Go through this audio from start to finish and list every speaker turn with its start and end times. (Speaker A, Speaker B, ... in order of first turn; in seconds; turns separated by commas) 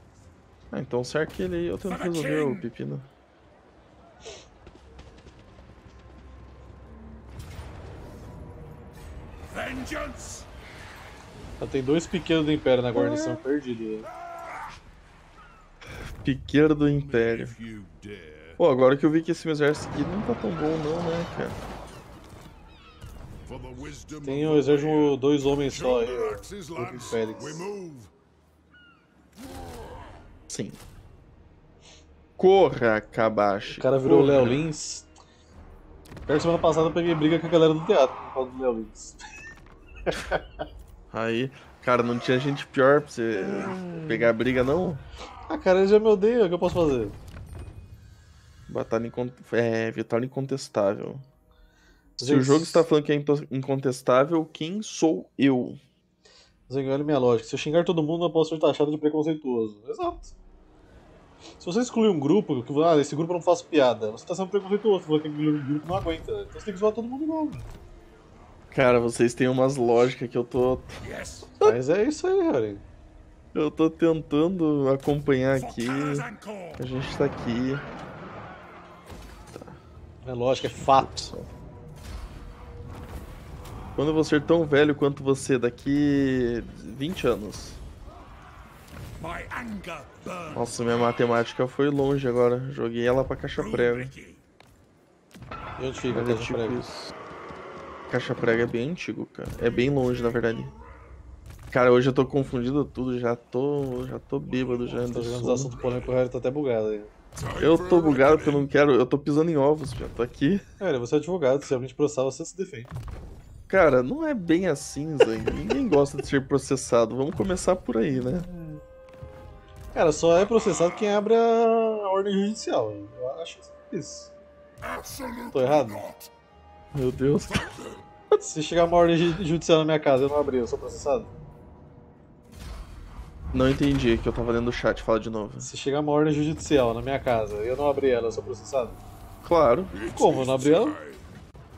Speaker A: 0.7-3.1, Speaker B: 1.9-2.7, Speaker B: 9.5-10.5, Speaker C: 11.6-14.1, Speaker A: 12.9-13.4, Speaker B: 14.2-14.8, Speaker A: 16.0-17.5, Speaker B: 16.9-18.6, Speaker A: 18.6-21.6, Speaker B: 23.4-28.1, Speaker C: 24.2-27.7, Speaker A: 30.5-30.8, Speaker A: 32.4-34.6, Speaker C: 33.7-35.1, Speaker C: 36.3-39.2, Speaker C: 40.1-40.4, Speaker A: 41.1-45.0, Speaker C: 43.4-44.3, Speaker C: 45.5-47.2, Speaker A: 48.7-51.2, Speaker A: 52.2-55.8, Speaker C: 52.2-52.8, Speaker C: 56.7-60.3, Speaker C: 61.6-67.7, Speaker A: 68.7-71.0, Speaker B: 71.0-71.5, Speaker C: 71.6-72.8, Speaker A: 73.5-76.3, Speaker B: 75.5-76.8, Speaker A: 76.8-77.8, Speaker A: 79.5-79.8, Speaker C: 80.2-81.2, Speaker A: 80.5-81.5, Speaker A: 84.0-87.8, Speaker B: 89.2-90.8, Speaker A: 90.5-94.1, Speaker B: 93.5-94.4, Speaker C: 95.8-96.8, Speaker A: 96.1-97.1, Speaker A: 98.1-100.7, Speaker B: 99.6-100.8, Speaker A: 101.7-105.7, Speaker B: 104.5-106.2, Speaker C: 105.0-107.1, Speaker B: 107.3-108.7, Speaker A: 107.6-110.6, Speaker C: 110.8-112.9, Speaker A: 113.7-118.5, Speaker C: 118.2-118.8, Speaker C: 119.9-124.3, Speaker B: 120.4-121.1, Speaker B: 124.8-126.3, Speaker C: 125.5-126.0, Speaker A: 126.9-127.8, Speaker B: 127.5-128.1, Speaker C: 128.4-131.3, Speaker A: 133.5-135.7, Speaker C: 135.6-139.0, Speaker A: 139.4-139.9, Speaker B: 139.9-141.4, Speaker C: 140.1-140.9